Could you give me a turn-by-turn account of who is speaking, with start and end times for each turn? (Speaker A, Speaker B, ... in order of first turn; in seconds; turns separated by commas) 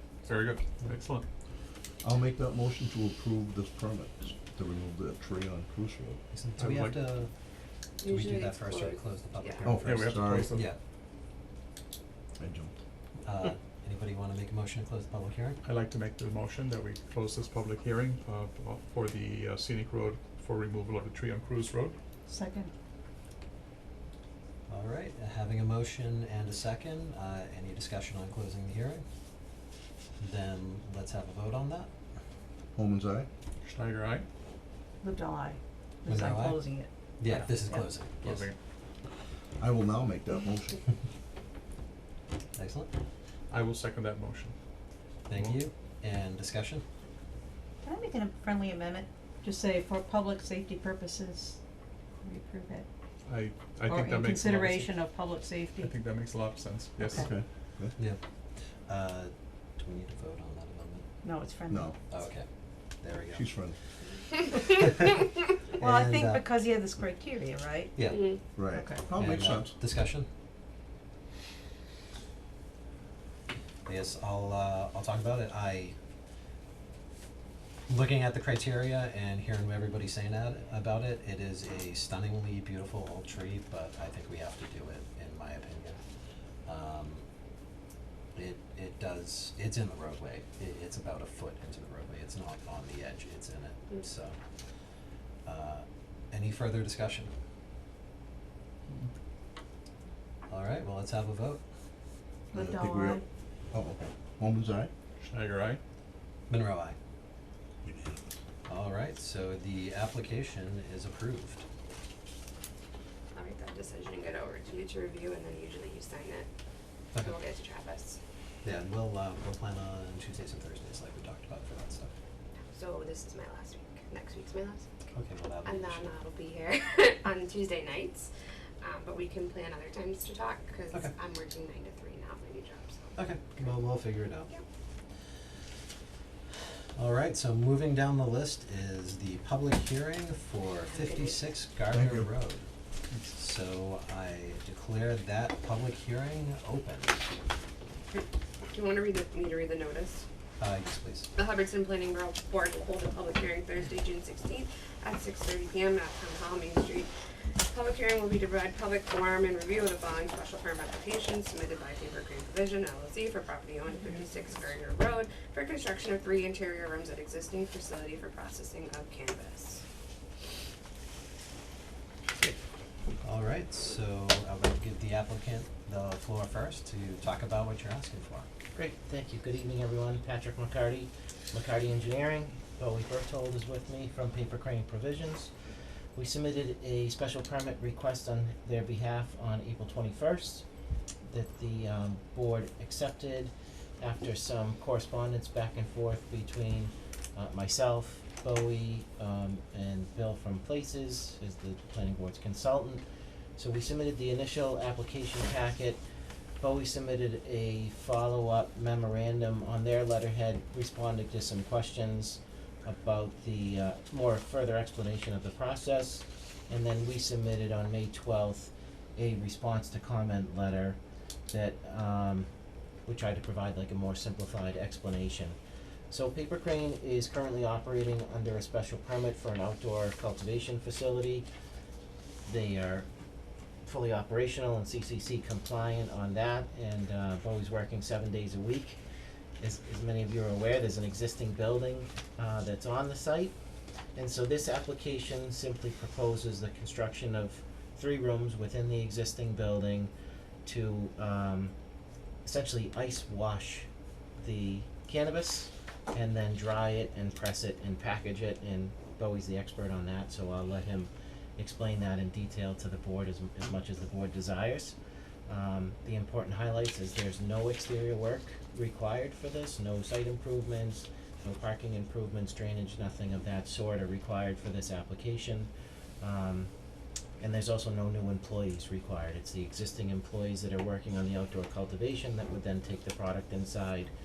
Speaker A: 0.3-1.3, Speaker B: 2.0-6.2, Speaker C: 6.3-7.3, Speaker A: 6.6-7.0, Speaker D: 8.0-9.8, Speaker C: 8.1-10.8, Speaker B: 9.7-10.6, Speaker A: 9.8-10.7, Speaker B: 12.4-12.8, Speaker C: 13.2-15.6, Speaker A: 15.6-22.0, Speaker E: 22.3-22.7, Speaker C: 24.7-29.0, Speaker C: 30.2-31.9, Speaker B: 32.8-33.3, Speaker A: 33.6-34.3, Speaker E: 35.0-38.0, Speaker C: 36.1-38.5, Speaker A: 38.2-38.6, Speaker B: 39.6-40.9, Speaker C: 42.6-42.9, Speaker A: 43.5-44.5, Speaker C: 45.3-46.8, Speaker A: 45.3-45.6, Speaker E: 47.8-51.6, Speaker E: 52.2-52.9, Speaker A: 53.3-55.0, Speaker E: 53.9-56.0, Speaker A: 55.8-57.3, Speaker E: 57.0-57.3, Speaker B: 57.1-57.9, Speaker C: 58.9-61.1, Speaker E: 61.2-62.0, Speaker B: 61.7-62.0, Speaker C: 62.1-62.5, Speaker C: 63.0-63.5, Speaker B: 63.3-63.8, Speaker C: 64.6-65.2, Speaker C: 65.8-66.6, Speaker E: 65.8-68.0, Speaker C: 68.0-68.3, Speaker D: 68.0-68.6, Speaker B: 68.5-69.8, Speaker E: 68.7-69.1, Speaker C: 69.2-70.3, Speaker C: 73.9-76.0, Speaker C: 77.9-86.0, Speaker C: 86.7-87.2, Speaker C: 88.3-94.4, Speaker C: 95.5-97.3, Speaker C: 100.5-101.6, Speaker E: 102.5-103.2, Speaker B: 102.5-104.9, Speaker A: 105.2-105.8, Speaker C: 106.5-107.0, Speaker B: 107.8-108.2, Speaker C: 108.7-111.6, Speaker D: 113.3-116.5, Speaker D: 117.2-118.2, Speaker C: 118.6-122.1, Speaker D: 122.7-125.0, Speaker C: 125.1-126.1, Speaker D: 125.7-133.8, Speaker C: 133.2-134.5, Speaker C: 136.9-142.7, Speaker D: 140.9-141.4, Speaker B: 141.9-142.3, Speaker C: 143.2-147.2, Speaker D: 148.1-150.2, Speaker C: 150.6-151.3, Speaker D: 151.3-157.1, Speaker D: 157.6-169.8, Speaker C: 173.2-178.5, Speaker F: 178.7-185.5, Speaker F: 186.2-190.7, Speaker F: 191.3-203.0, Speaker F: 203.6-206.0, Speaker F: 206.6-221.0, Speaker F: 221.5-222.5, Speaker F: 223.1-225.6, Speaker F: 226.1-231.5, Speaker F: 232.5-233.1, Speaker F: 233.8-239.0, Speaker F: 239.6-243.5, Speaker F: 244.2-250.1, Speaker F: 250.7-251.7, Speaker F: 252.4-265.0, Speaker F: 265.5-276.7, Speaker F: 277.4-284.1